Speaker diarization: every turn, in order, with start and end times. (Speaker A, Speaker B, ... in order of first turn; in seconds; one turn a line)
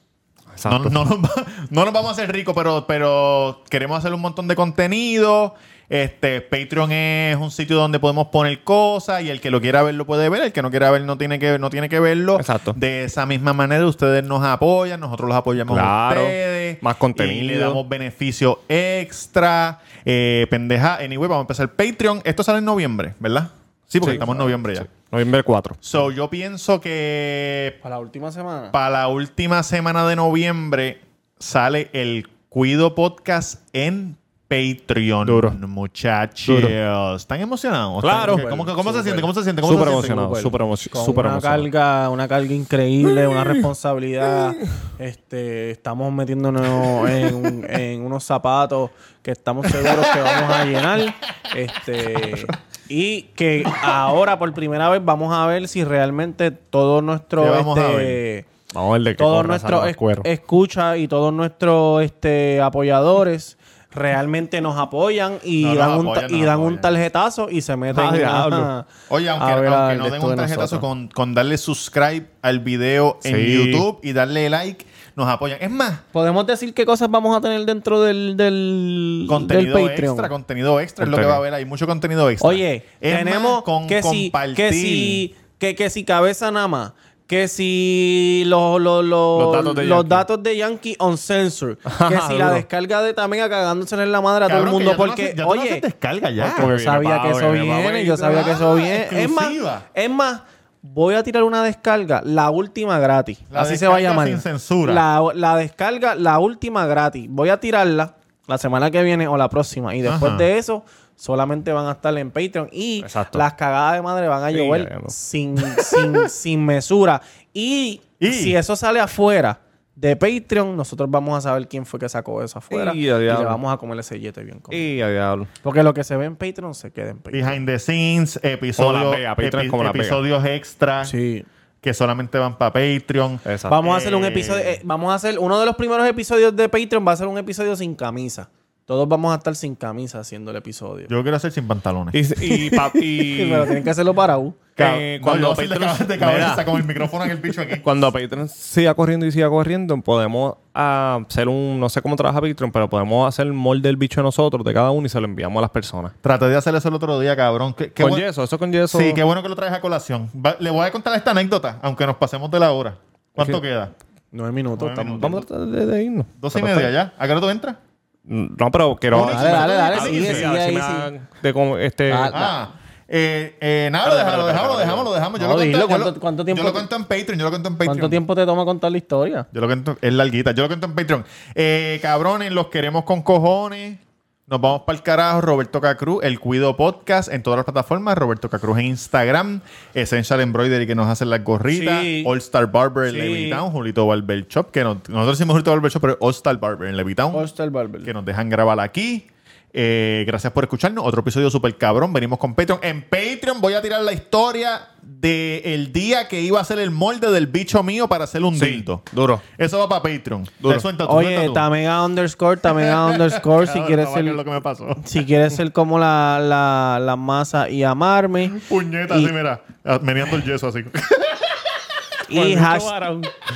Speaker A: 0.5-1.0
Speaker B: 0.6-24.9
Speaker A: 12.4-12.8
Speaker A: 15.7-17.8
Speaker A: 24.0-25.8
Speaker B: 25.8-27.8
Speaker C: 27.8-28.7
Speaker B: 28.7-40.1
Speaker A: 35.2-35.6
Speaker A: 36.5-36.7
Speaker A: 38.0-38.4
Speaker C: 38.0-58.5
Speaker A: 39.6-41.7
Speaker A: 43.2-43.6
Speaker B: 57.4-58.2
Speaker A: 58.7-60.3
Speaker C: 59.2-68.8
Speaker B: 65.6-66.9
Speaker A: 67.9-68.7
Speaker B: 69.1-76.0
Speaker C: 69.4-70.8
Speaker A: 73.2-73.8
Speaker C: 76.1-80.3
Speaker B: 79.3-85.2
Speaker A: 81.0-81.4
Speaker C: 82.4-95.8
Speaker A: 89.3-90.2
Speaker A: 91.9-92.6
Speaker B: 94.5-96.7
Speaker C: 96.4-124.9
Speaker A: 96.5-98.6
Speaker B: 98.3-99.8
Speaker B: 103.5-105.0
Speaker B: 110.0-110.5
Speaker A: 113.0-113.4
Speaker A: 114.5-116.3
Speaker B: 118.2-118.6
Speaker A: 122.7-123.6
Speaker A: 124.7-125.5
Speaker C: 125.6-127.6
Speaker B: 127.3-131.1
Speaker A: 128.8-130.2
Speaker C: 131.0-131.4
Speaker B: 131.8-134.8
Speaker A: 133.4-133.8
Speaker C: 133.7-141.1
Speaker B: 141.1-142.2
Speaker A: 142.1-143.8
Speaker C: 142.5-144.6
Speaker B: 144.8-147.9
Speaker A: 144.8-147.0
Speaker A: 147.8-156.1
Speaker B: 156.2-158.2
Speaker A: 158.0-159.2
Speaker B: 158.9-163.9
Speaker C: 164.3-165.2
Speaker B: 164.8-165.4
Speaker A: 165.0-166.9
Speaker B: 166.4-167.8
Speaker A: 168.3-172.4
Speaker B: 169.1-170.5
Speaker C: 169.1-171.1
Speaker C: 172.1-172.5
Speaker B: 172.3-178.2
Speaker A: 174.0-175.1
Speaker C: 175.4-176.9
Speaker C: 177.8-179.5
Speaker B: 179.5-197.5
Speaker C: 191.7-192.3
Speaker C: 193.1-193.6
Speaker C: 197.3-198.1
Speaker B: 198.0-211.7
Speaker A: 208.5-209.4
Speaker A: 210.6-210.8
Speaker C: 211.0-214.4
Speaker B: 212.8-215.2
Speaker C: 215.0-219.3
Speaker B: 218.5-221.7
Speaker C: 222.3-223.1
Speaker A: 222.3-223.3